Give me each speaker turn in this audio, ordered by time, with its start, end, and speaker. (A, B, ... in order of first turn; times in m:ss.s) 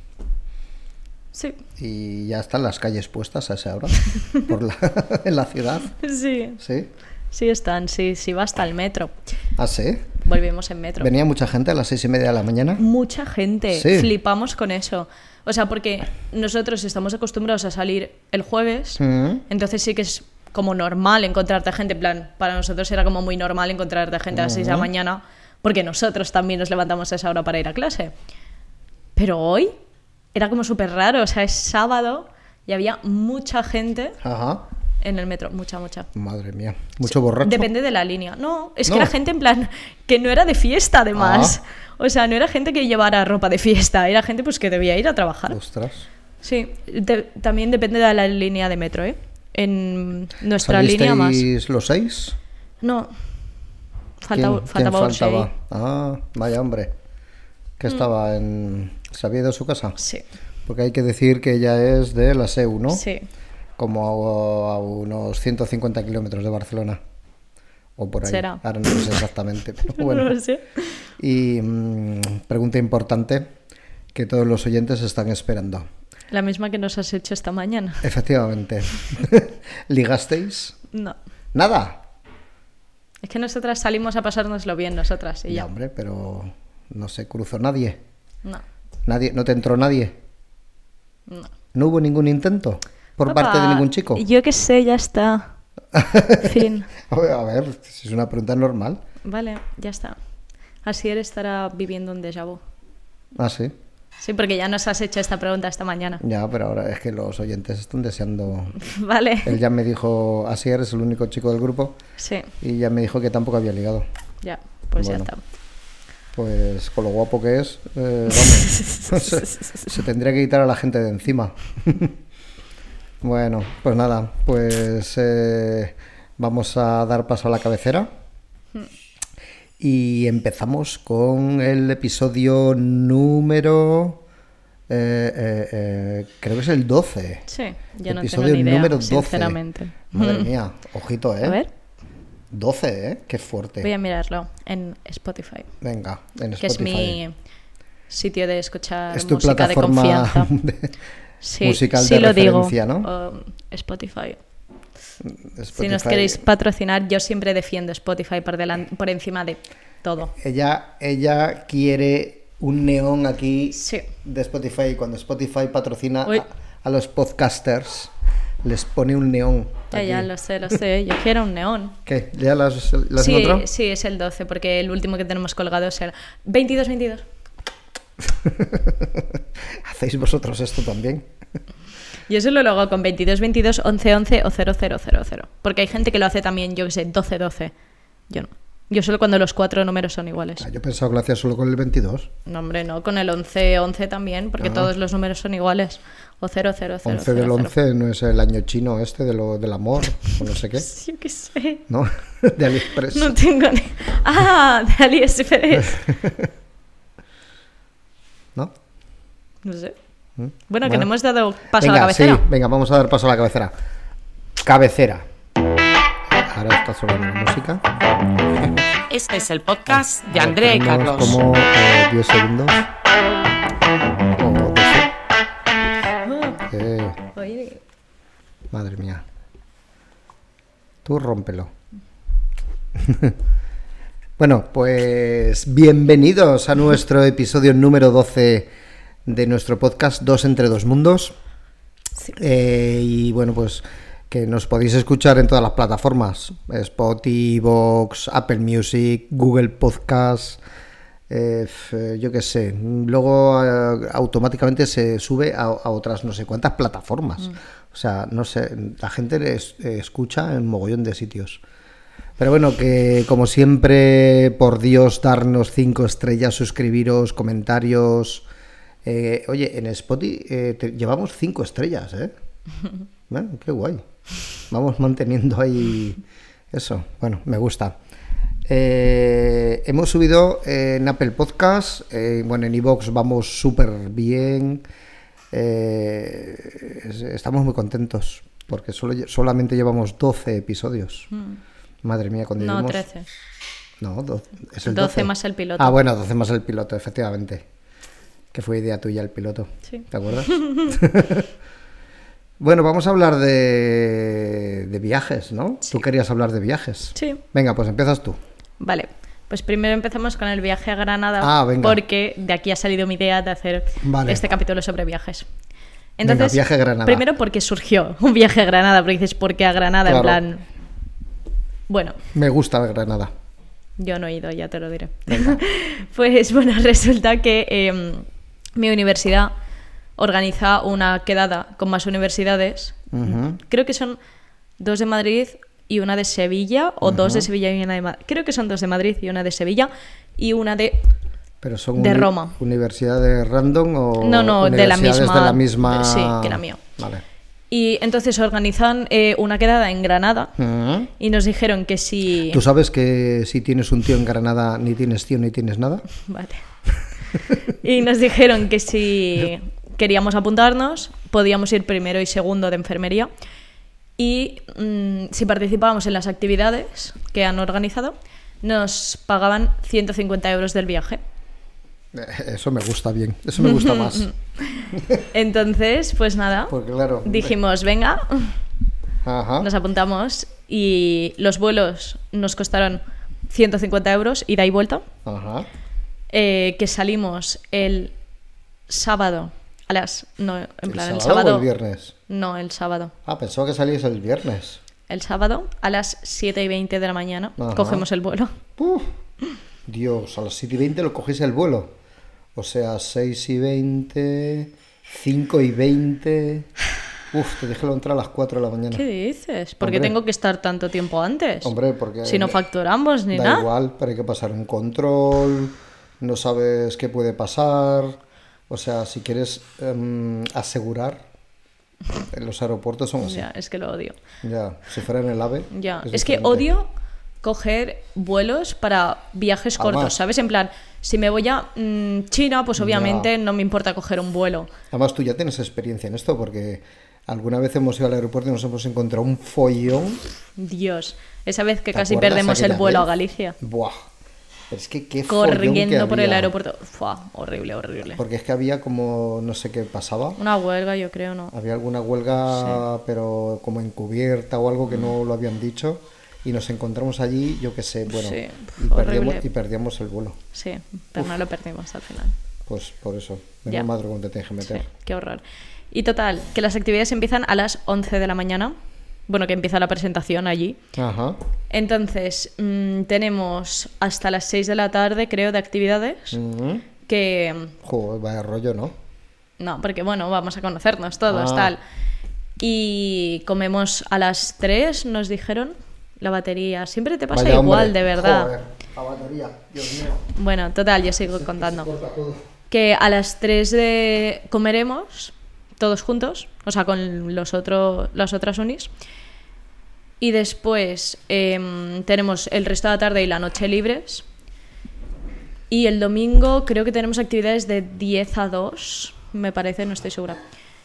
0:01.3-0:01.6 A
0:01.8-0:05.9 B
0:05.9-0:06.6 A
0:06.6-0:06.9 B
0:07.3-0:09.2 A
0:09.6-0:10.1 B
0:10.2-0:11.1 A
0:11.0-0:12.8 B
0:12.8-0:28.1 A
0:13.7-0:14.1 B
0:19.0-0:19.4 B
0:24.3-0:24.9 B
0:29.2-0:29.8 A
0:30.3-0:34.2 A
0:34.2-0:34.6 B
0:35.0-0:36.1 A
0:36.1-0:37.7 B
0:37.1-0:45.6 A
0:38.9-0:39.1 B
0:41.2-0:41.6 B
0:45.5-0:46.1 B
0:46.4-0:51.4 A
0:50.6-0:52.4 B
0:52.8-0:53.1 A
0:54.2-0:55.5 A
0:54.3-0:56.9 B
0:57.8-1:00.0 B
1:00.0-1:00.2 A
1:00.7-1:03.0 B
1:02.9-1:03.3 A
1:03.8-1:07.0 B
1:08.0-1:10.4 B
1:08.2-1:09.2 A
1:09.9-1:11.0 A
1:11.2-1:13.5 B
1:14.1-1:15.9 B
1:16.3-1:18.1 A
1:18.0-1:20.8 B
1:20.9-1:21.2 A
1:21.5-1:22.0 B
1:23.2-1:25.7 A
1:25.5-1:28.0 B
1:29.1-1:30.2 B
1:31.7-1:34.2 B
1:33.3-1:35.5 A
1:35.9-1:39.0 B
1:36.4-1:36.9 A
1:39.2-1:40.2 A
1:40.8-1:42.6 A
1:43.4-1:43.7 B
1:44.2-1:46.2 A
1:46.2-1:48.8 B
1:48.8-1:49.6 A
1:49.4-1:52.0 B
1:52.2-1:52.5 A
1:52.6-1:54.0 B
1:54.4-1:55.4 A
1:55.0-1:55.3 B
1:56.4-2:02.2 B
1:58.3-2:00.0 A
2:03.2-2:08.1 B
2:09.8-2:14.2 B
2:14.9-2:17.5 B
2:17.5-2:20.5 A
2:18.1-2:19.6 B
2:20.1-2:21.6 B
2:21.4-2:21.7 A
2:22.5-2:23.9 B
2:23.8-2:25.7 A
2:25.8-2:27.2 B
2:26.6-2:27.4 A
2:28.1-2:30.5 A
2:29.1-2:30.9 B
2:31.4-2:34.4 A
2:31.6-2:33.1 B
2:35.3-2:36.4 B
2:35.8-2:40.3 A
2:40.3-2:48.1 B
2:43.8-2:44.1 A
2:48.6-2:50.3 B
2:49.9-2:52.0 A
2:52.1-2:53.7 B
2:53.2-2:57.2 A
2:58.3-2:59.3 B
2:59.8-3:01.2 B
3:02.3-3:07.7 A
3:08.3-3:10.6 A
3:10.6-3:12.3 B
3:12.5-3:17.7 A
3:14.6-3:14.9 B
3:17.0-3:20.9 B
3:20.8-3:21.9 A
3:21.9-3:23.4 B
3:23.0-3:26.1 A
3:26.0-3:26.5 B
3:29.6-3:30.0 A
3:30.4-3:31.1 B
3:30.7-3:32.4 A
3:31.7-3:33.7 B
3:34.6-3:35.3 B
3:36.4-3:37.8 B
3:38.6-3:38.8 B
3:39.1-3:41.4 C
3:39.9-3:42.9 B
3:44.4-3:45.1 B
3:46.2-3:46.6 A
3:46.7-3:47.3 B
3:47.4-3:47.8 A
3:48.7-3:49.2 B
3:51.0-3:51.7 B
3:53.0-3:53.4 B
3:54.4-3:58.7 B
3:59.3-4:01.4 B
4:02.3-4:10.6 B
4:11.3-4:21.6 B
4:22.4-4:28.5 B
4:29.0-4:32.3 B
4:33.3-4:34.0 B
4:34.7-4:36.2 B
4:36.7-4:38.0 B
4:38.7-4:44.8 B
4:45.5-4:51.3 B
4:51.3-4:51.6 A
4:52.0-4:53.0 B
4:52.6-4:53.3 A
4:54.0-4:57.7 B
4:54.9-4:55.9 A
4:58.5-5:01.5 B
4:59.9-5:00.7 A
5:02.6-5:08.4 B
5:07.2-5:07.4 A
5:08.8-5:15.5 A
5:11.4-5:12.0 B
5:14.0-5:14.4 B
5:16.2-5:20.6 A
5:16.2-5:17.2 B
5:20.0-5:20.4 B
5:21.9-5:22.2 A
5:22.3-5:23.3 B
5:24.0-5:29.5 A
5:25.3-5:25.6 B
5:30.2-5:33.1 A
5:33.1-5:33.6 B
5:33.6-5:34.2 A
5:34.8-5:41.0 A
5:37.0-5:37.5 B
5:41.6-5:47.2 B
5:42.0-5:42.6 A
5:44.2-5:46.8 A
5:47.7-5:50.5 A
5:50.6-5:51.1 B
5:51.2-5:52.6 A
5:52.5-5:56.0 B
5:56.3-5:56.6 A
5:57.8-6:03.3 A
6:04.2-6:11.2 A
6:12.1-6:14.3 B
6:13.6-6:16.7 A
6:15.0-6:15.2 B
6:16.7-6:17.6 B
6:17.2-6:18.6 A
6:19.2-6:19.7 B
6:19.6-6:25.1 A
6:25.2-6:25.7 B
6:26.3-6:28.1 A
6:28.9-6:31.7 A
6:30.8-6:32.2 B
6:32.3-6:33.1 A
6:33.2-6:34.8 B
6:35.1-6:38.6 A
6:37.6-6:38.0 B
6:38.8-6:39.1 B
6:39.9-6:41.9 B
6:42.6-6:46.7 B
6:47.3-6:49.0 B
6:48.9-6:51.7 A
6:49.8-6:50.1 B
6:51.6-6:52.6 B
6:52.2-6:53.7 A
6:53.3-6:58.2 B
6:58.7-7:01.2 B
7:02.3-7:03.5 B
7:03.2-7:04.2 A
7:04.4-7:06.7 B
7:05.7-7:06.9 A
7:07.4-7:14.7 A
7:09.8-7:10.2 B
7:12.8-7:13.3 B
7:14.9-7:20.2 B
7:20.6-7:23.6 A
7:21.9-7:23.1 B
7:23.6-7:24.0 B
7:24.7-7:26.5 B
7:25.3-7:28.2 A
7:28.2-7:30.4 B
7:30.4-7:31.5 A
7:31.5-7:40.4 B
7:32.6-7:32.8 A
7:38.1-7:39.5 A
7:40.5-7:42.4 A
7:42.7-7:44.9 B
7:44.6-7:48.8 A
7:49.3-7:50.8 A
7:51.0-7:51.4 B
7:51.7-7:56.4 A
7:56.3-7:56.9 B
7:57.0-7:57.7 A
7:57.8-7:59.0 B
7:59.6-8:01.8 A
8:01.3-8:01.7 B
8:02.6-8:08.5 A
8:07.3-8:10.2 B
8:10.3-8:11.9 A
8:11.4-8:12.4 B
8:12.7-8:18.9 A
8:20.2-8:24.2 A
8:25.7-8:30.4 A